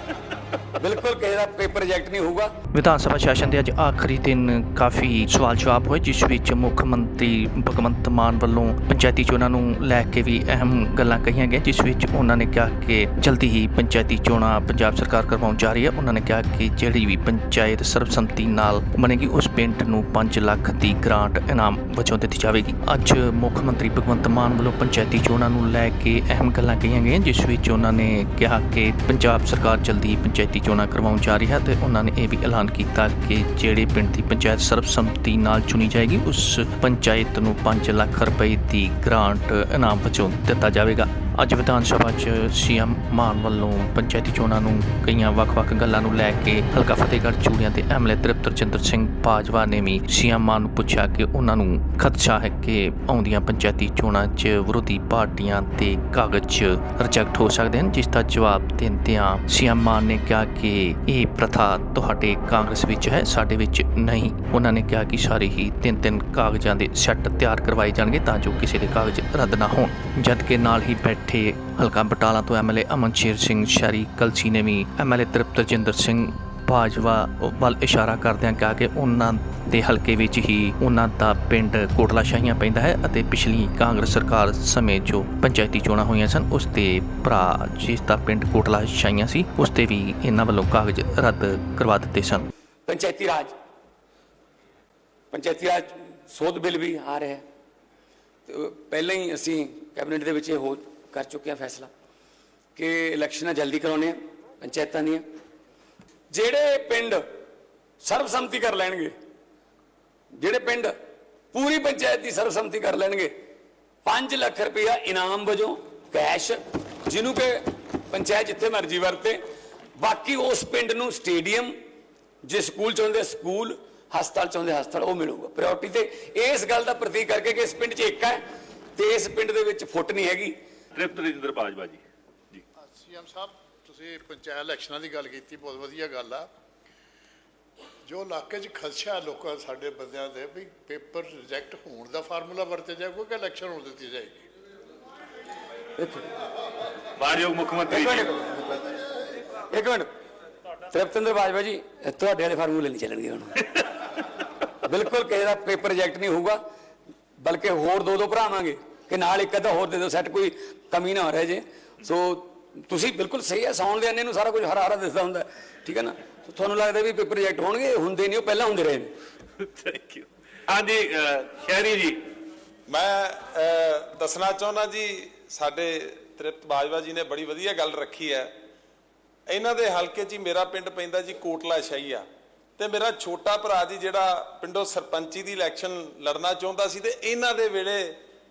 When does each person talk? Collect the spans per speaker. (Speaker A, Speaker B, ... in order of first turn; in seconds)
Speaker A: 0.8-2.5, 92.9-93.5, 95.3-97.4, 98.5-101.9, 102.8-105.2, 106.3-107.2, 108.0-109.1, 110.3-110.9, 111.5-113.3, 114.0-119.4, 120.0-121.8, 122.4-128.4, 128.9-130.6, 146.0-146.2, 147.9-149.0, 149.5-150.1, 150.9-153.9, 154.8-156.6, 157.4-169.1
Speaker B: 2.7-92.5
Speaker C: 131.0-132.7, 147.2-148.3, 169.6-172.2
Speaker D: 132.8-136.5, 138.1-144.4
Speaker E: 172.9-178.5, 179.5-182.3, 182.8-188.2